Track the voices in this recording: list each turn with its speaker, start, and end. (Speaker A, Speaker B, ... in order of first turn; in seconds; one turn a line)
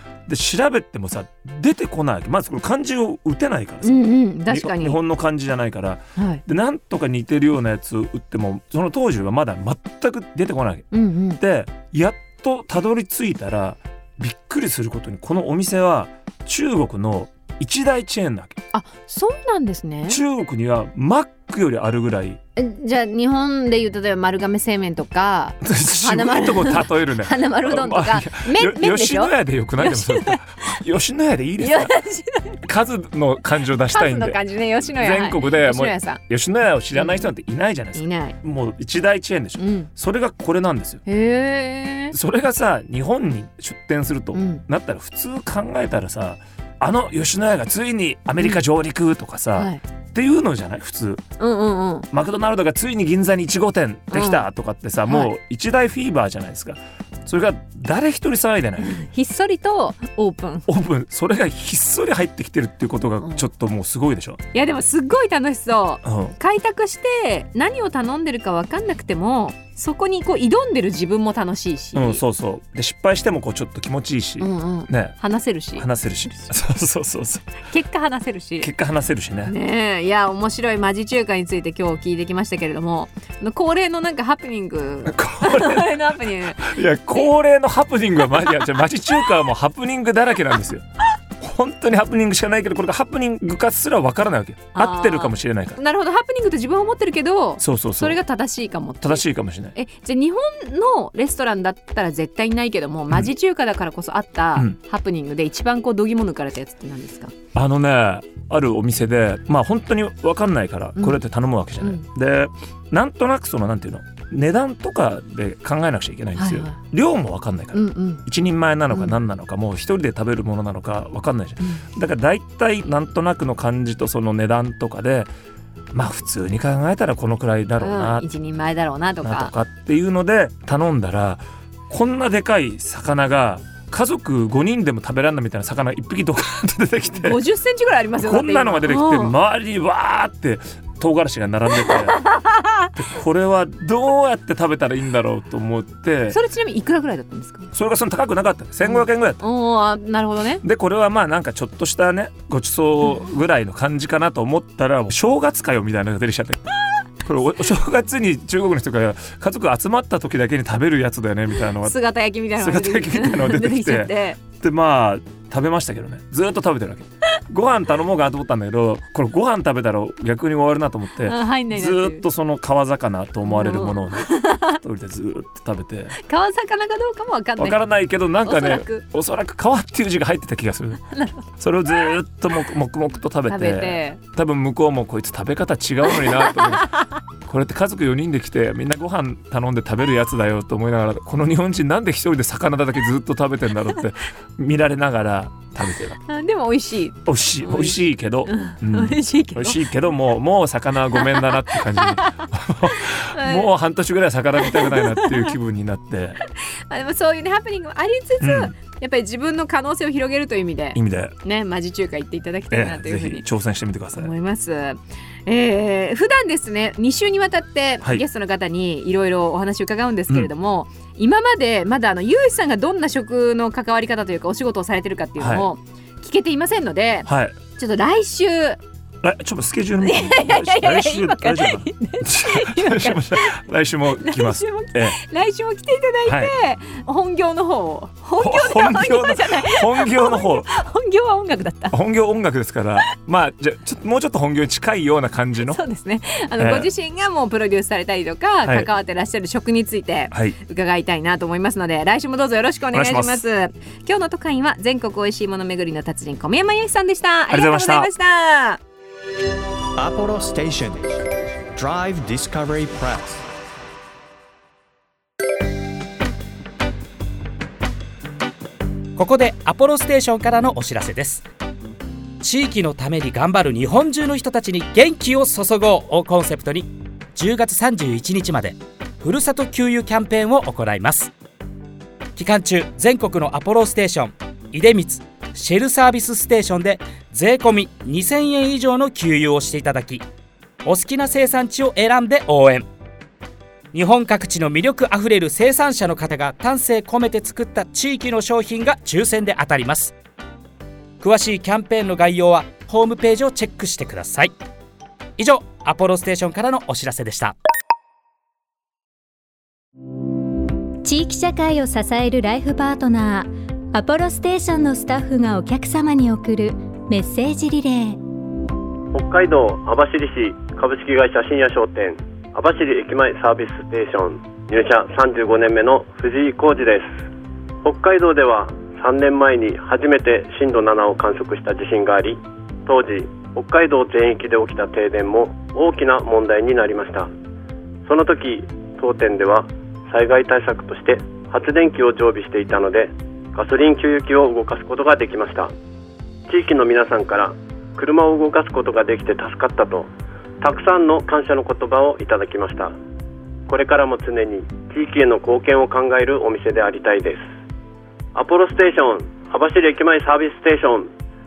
Speaker A: 0.3-18.6
Speaker B: 3.8-5.0
Speaker B: 6.2-6.4
Speaker B: 10.9-11.4
Speaker B: 18.7-20.2
Speaker A: 20.1-22.4
Speaker B: 22.6-30.8
Speaker A: 25.6-31.9
Speaker B: 31.6-32.6
Speaker A: 32.6-41.0
Speaker B: 33.9-36.2
Speaker B: 37.0-37.3
Speaker B: 38.0-38.4
Speaker B: 39.6-39.9
Speaker B: 41.1-42.2
Speaker A: 42.1-51.2
Speaker B: 44.3-44.6
Speaker B: 49.6-49.8
Speaker B: 51.4-52.1
Speaker A: 52.1-58.9
Speaker B: 54.1-54.5
Speaker B: 55.1-55.3
Speaker B: 58.8-60.7
Speaker A: 60.7-64.4
Speaker B: 64.5-72.2
Speaker A: 66.0-66.4
Speaker A: 72.0-75.2
Speaker B: 74.4-76.5
Speaker A: 75.8-77.5
Speaker B: 77.7-78.7
Speaker A: 78.6-79.5
Speaker B: 79.5-87.3
Speaker A: 85.1-90.8
Speaker A: 91.4-95.8
Speaker B: 94.7-107.3
Speaker A: 97.6-98.2
Speaker A: 99.0-99.8
Speaker A: 107.5-125.3
Speaker B: 116.4-116.8
Speaker B: 117.7-118.2
Speaker B: 118.9-119.2
Speaker A: 125.9-128.3
Speaker B: 127.8-129.5
Speaker A: 129.2-137.4
Speaker B: 137.1-139.3
Speaker A: 138.2-142.2
Speaker B: 141.8-142.9
Speaker A: 142.9-146.4
Speaker B: 146.3-147.7
Speaker A: 147.7-149.4
Speaker B: 148.8-150.6
Speaker A: 150.6-156.7
Speaker A: 157.2-162.0
Speaker B: 161.8-164.4
Speaker A: 162.6-176.2
Speaker B: 171.2-172.2
Speaker B: 173.5-174.8
Speaker B: 176.2-177.8
Speaker A: 177.6-181.0
Speaker B: 178.4-179.0
Speaker B: 181.1-181.4
Speaker A: 181.6-186.9
Speaker B: 183.5-184.2
Speaker B: 186.2-187.1
Speaker A: 187.4-196.2
Speaker B: 196.3-199.8
Speaker A: 197.2-206.4
Speaker B: 201.2-203.7
Speaker B: 204.6-205.5
Speaker B: 206.9-213.5
Speaker A: 208.4-208.7
Speaker A: 210.9-211.4
Speaker A: 212.7-214.3
Speaker B: 214.2-228.8
Speaker A: 225.4-225.7
Speaker A: 227.3-227.6
Speaker A: 229.2-235.2
Speaker B: 230.0-233.6
Speaker B: 234.2-242.0
Speaker A: 236.3-236.5
Speaker A: 238.4-240.7
Speaker A: 241.9-245.8
Speaker B: 245.7-258.8
Speaker A: 246.6-246.9
Speaker A: 252.9-253.4
Speaker A: 257.5-258.1
Speaker C: 260.0-261.2
Speaker C: 261.7-263.4
Speaker D: 269.2-271.4
Speaker D: 272.4-281.3
Speaker D: 282.4-290.2
Speaker D: 290.8-292.9
Speaker D: 293.9-300.1
Speaker D: 301.2-304.5
Speaker D: 305.4-307.6
Speaker E: 311.0-318.2
Speaker F: 319.1-327.2
Speaker F: 327.8-337.3
Speaker F: 338.1-345.7
Speaker F: 346.5-350.1
Speaker F: 350.6-352.9
Speaker F: 353.7-357.4
Speaker F: 358.4-361.1